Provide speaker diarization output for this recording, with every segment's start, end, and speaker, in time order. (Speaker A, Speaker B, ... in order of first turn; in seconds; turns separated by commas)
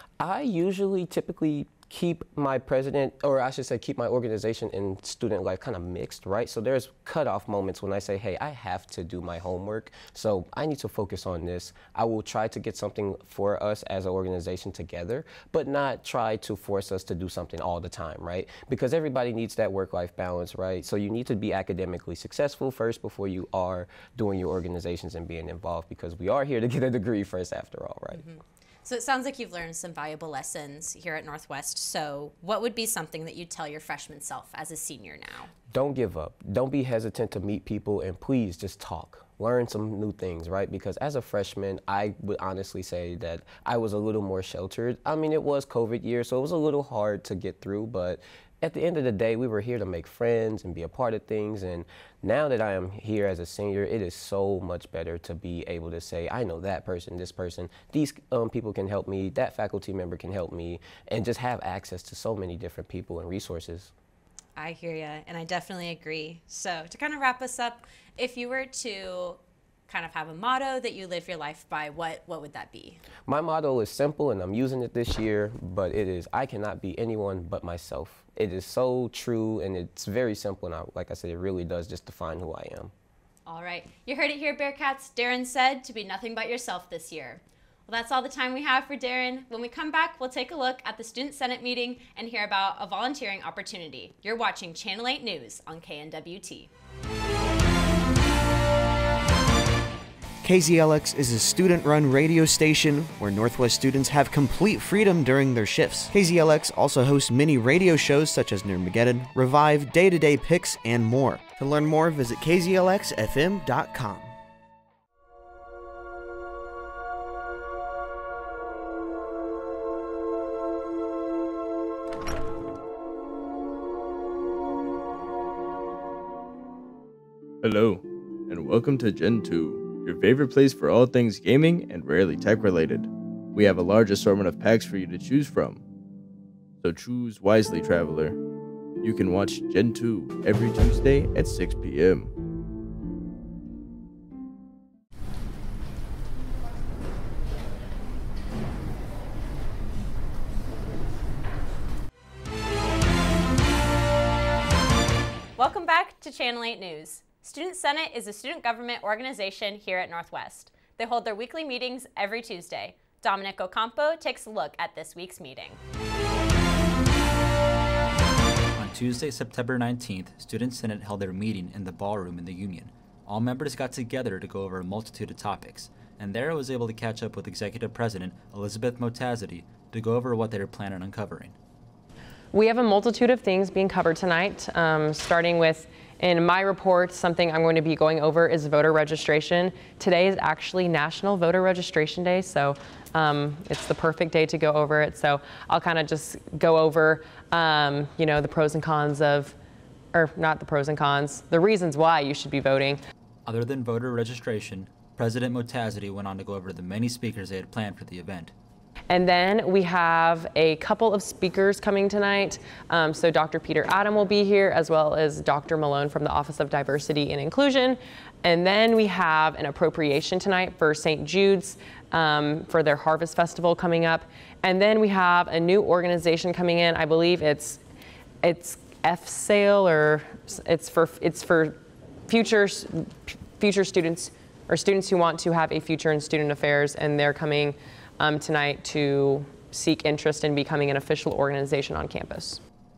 Speaker A: 0.2-28.2, Speaker B: 28.1-35.5, Speaker A: 35.7-63.9, Speaker B: 64.6-73.0, Speaker A: 73.3-82.9, Speaker B: 83.5-96.7, Speaker C: 100.4-114.3, Speaker D: 127.6-135.8, Speaker D: 136.8-138.4, Speaker D: 139.0-142.3, Speaker B: 155.6-165.8, Speaker E: 168.8-181.6, Speaker F: 182.5-199.6, Speaker F: 200.1-203.0, Speaker E: 203.5-208.5, Speaker F: 209.1-227.8, Speaker F: 228.4-242.6